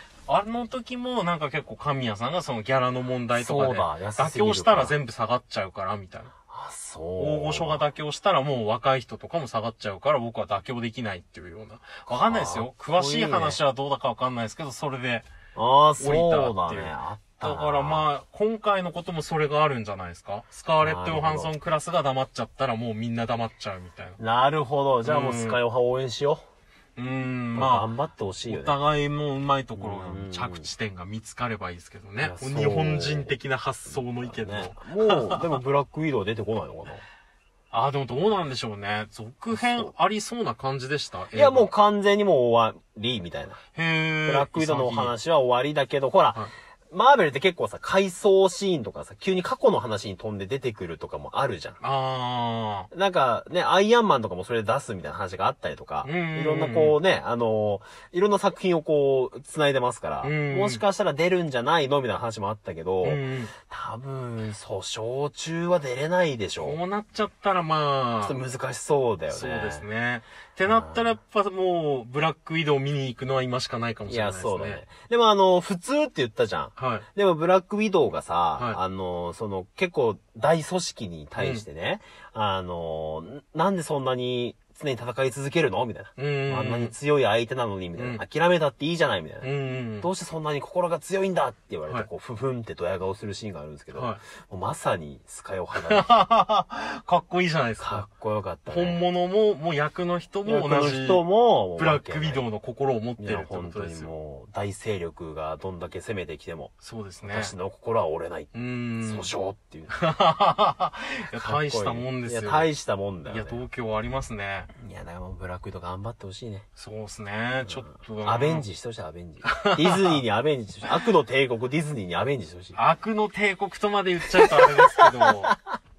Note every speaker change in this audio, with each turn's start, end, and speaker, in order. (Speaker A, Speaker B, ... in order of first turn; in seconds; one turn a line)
Speaker A: 0.3-6.3
Speaker B: 3.3-5.0
Speaker B: 6.5-7.8
Speaker A: 7.2-15.2
Speaker B: 12.1-13.6
Speaker B: 15.5-18.1
Speaker A: 16.0-24.2
Speaker B: 20.8-21.5
Speaker B: 24.2-26.4
Speaker A: 25.0-25.6
Speaker A: 26.9-27.9
Speaker B: 27.5-28.8
Speaker A: 28.4-35.6
Speaker B: 29.8-30.7
Speaker B: 32.2-33.4
Speaker B: 33.9-37.0
Speaker A: 37.7-41.7
Speaker B: 39.5-39.9
Speaker B: 41.3-43.6
Speaker A: 43.7-45.1
Speaker B: 44.2-51.8
Speaker A: 51.8-52.9
Speaker B: 52.9-66.8
Speaker A: 56.0-57.0
Speaker A: 60.2-60.8
Speaker A: 63.0-63.5
Speaker A: 66.6-68.4
Speaker B: 68.2-69.8
Speaker A: 69.3-74.8
Speaker B: 70.7-71.1
Speaker B: 74.1-96.1
Speaker A: 76.8-77.0
Speaker A: 81.4-81.6
Speaker A: 86.2-86.9
Speaker A: 88.0-88.2
Speaker A: 89.4-90.1
Speaker A: 93.9-94.2
Speaker A: 95.7-98.0
Speaker B: 97.8-99.0
Speaker A: 98.7-104.1
Speaker B: 100.5-102.5
Speaker B: 103.2-106.7
Speaker A: 106.8-107.5
Speaker B: 107.2-110.0
Speaker A: 108.5-109.3
Speaker A: 109.9-112.7
Speaker B: 111.3-113.6
Speaker A: 113.2-114.7
Speaker B: 114.8-116.7
Speaker A: 116.8-118.6
Speaker B: 117.7-122.8
Speaker A: 119.5-120.2
Speaker A: 122.7-125.5
Speaker B: 124.3-125.5